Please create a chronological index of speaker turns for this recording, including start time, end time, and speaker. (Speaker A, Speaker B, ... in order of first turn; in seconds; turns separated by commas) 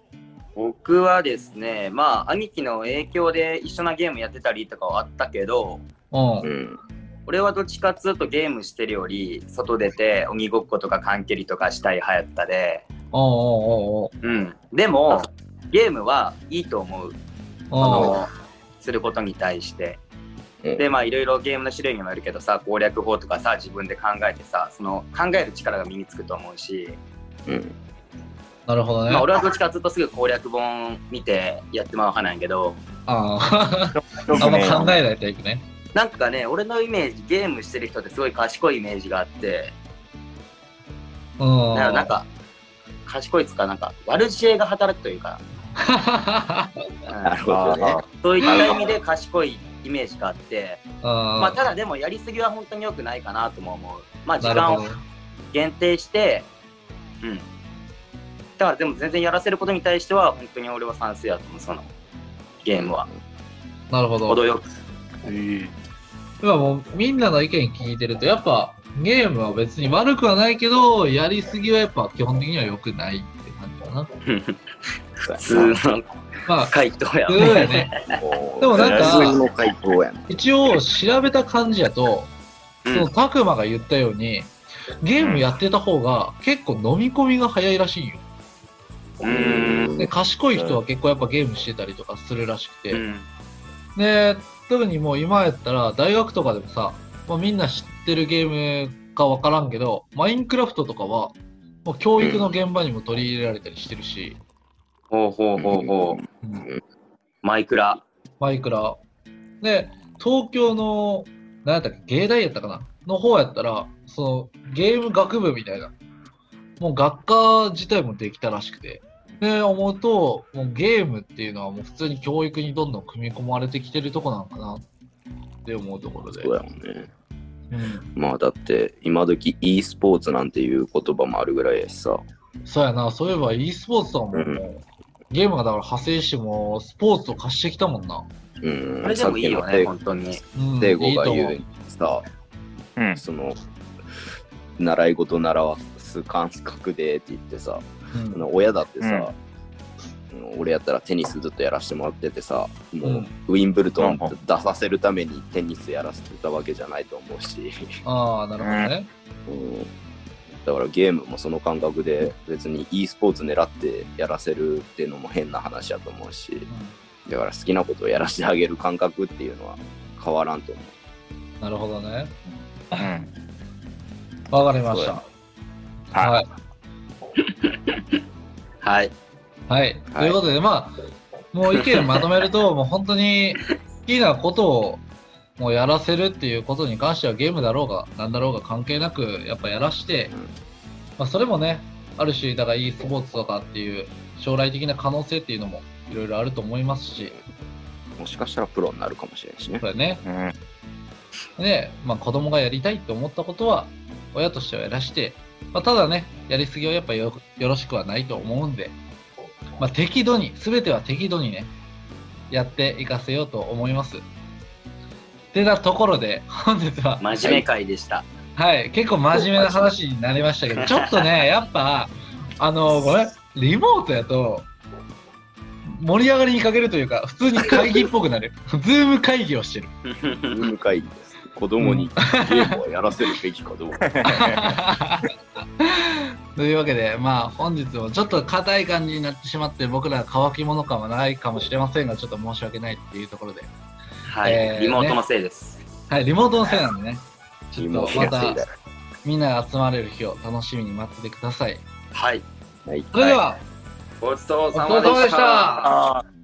Speaker A: 0.6-5.8, Speaker B: 6.1-6.5, Speaker C: 6.4-6.8, Speaker A: 7.3-12.9, Speaker B: 13.1-14.1, Speaker A: 14.2-17.2, Speaker B: 17.7-18.3, Speaker C: 17.8-18.2, Speaker A: 17.9-18.2, Speaker A: 18.8-20.0, Speaker A: 20.8-27.0, Speaker C: 27.5-27.7, Speaker B: 28.7-29.3, Speaker A: 29.1-32.8, Speaker B: 33.1-35.6, Speaker D: 34.0-35.0, Speaker A: 36.0-39.8, Speaker B: 41.4-42.1, Speaker A: 41.7-42.3, Speaker A: 43.0-45.4, Speaker B: 45.8-46.7, Speaker A: 47.1-47.5, Speaker C: 47.2-48.7, Speaker D: 47.5-48.0, Speaker A: 48.2-50.8, Speaker B: 51.0-51.6, Speaker A: 51.4-54.8, Speaker B: 54.4-55.0, Speaker A: 55.5-56.5, Speaker A: 58.6-61.9, Speaker A: 62.6-63.1, Speaker C: 62.8-63.1, Speaker B: 63.9-64.4, Speaker A: 64.3-64.7, Speaker D: 65.2-65.7, Speaker B: 66.4-74.1, Speaker A: 74.3-74.6, Speaker C: 75.3-75.8, Speaker A: 75.4-76.0, Speaker B: 76.5-76.7, Speaker A: 76.7-78.0, Speaker B: 77.3-77.9, Speaker C: 78.1-80.3, Speaker B: 78.6-79.4, Speaker D: 78.8-79.4, Speaker B: 80.3-82.3, Speaker B: 82.9-88.2, Speaker C: 89.2-90.1, Speaker A: 89.2-89.9, Speaker B: 90.0-93.0, Speaker D: 90.5-90.8, Speaker A: 92.9-93.3, Speaker B: 94.0-104.4, Speaker C: 102.2-102.5, Speaker A: 105.1-106.2, Speaker C: 105.6-106.8, Speaker A: 107.4-108.0, Speaker B: 108.4-109.0, Speaker B: 109.6-115.9, Speaker B: 116.8-124.8, Speaker B: 125.7-126.5, Speaker C: 126.3-127.1, Speaker B: 127.7-128.1, Speaker C: 128.2-132.2, Speaker B: 132.7-138.2, Speaker C: 134.3-134.6, Speaker C: 138.6-139.9, Speaker A: 139.0-140.4, Speaker B: 140.6-141.6, Speaker C: 140.8-142.2, Speaker C: 143.2-143.6, Speaker C: 144.8-149.3, Speaker B: 148.1-148.5, Speaker D: 149.0-149.3, Speaker C: 150.3-157.8, Speaker B: 153.0-153.3, Speaker D: 154.0-154.3, Speaker B: 158.1-159.1, Speaker D: 158.6-158.9, Speaker C: 159.5-159.9, Speaker C: 160.6-166.7, Speaker B: 166.7-167.0, Speaker C: 167.3-170.9, Speaker B: 171.6-172.3, Speaker D: 173.0-173.3, Speaker B: 174.5-175.2, Speaker D: 174.9-175.2, Speaker B: 176.2-176.4, Speaker A: 177.4-178.0, Speaker A: 178.8-179.1, Speaker B: 179.7-181.0, Speaker C: 180.1-180.4, Speaker B: 181.5-185.0, Speaker B: 185.6-190.3, Speaker B: 191.2-197.3, Speaker C: 198.2-199.8, Speaker B: 199.8-200.2, Speaker D: 200.2-200.5, Speaker B: 201.6-209.0, Speaker B: 209.8-211.7, Speaker B: 212.5-214.2, Speaker B: 215.5-217.2, Speaker A: 217.2-218.3, Speaker B: 218.6-224.7, Speaker A: 219.6-219.9, Speaker C: 219.6-219.9, Speaker B: 225.9-229.9, Speaker A: 230.2-230.5, Speaker C: 230.5-234.0, Speaker B: 231.8-232.8, Speaker D: 234.0-234.8, Speaker B: 234.3-235.3, Speaker B: 235.8-243.7, Speaker A: 244.3-245.8, Speaker B: 244.4-245.2, Speaker B: 246.1-248.6, Speaker C: 247.8-248.7, Speaker A: 248.1-248.5, Speaker B: 249.2-251.8, Speaker A: 252.1-252.5, Speaker C: 252.9-253.1, Speaker B: 253.1-253.6, Speaker A: 253.2-253.4, Speaker A: 254.2-255.9, Speaker B: 254.7-255.8, Speaker D: 255.8-256.2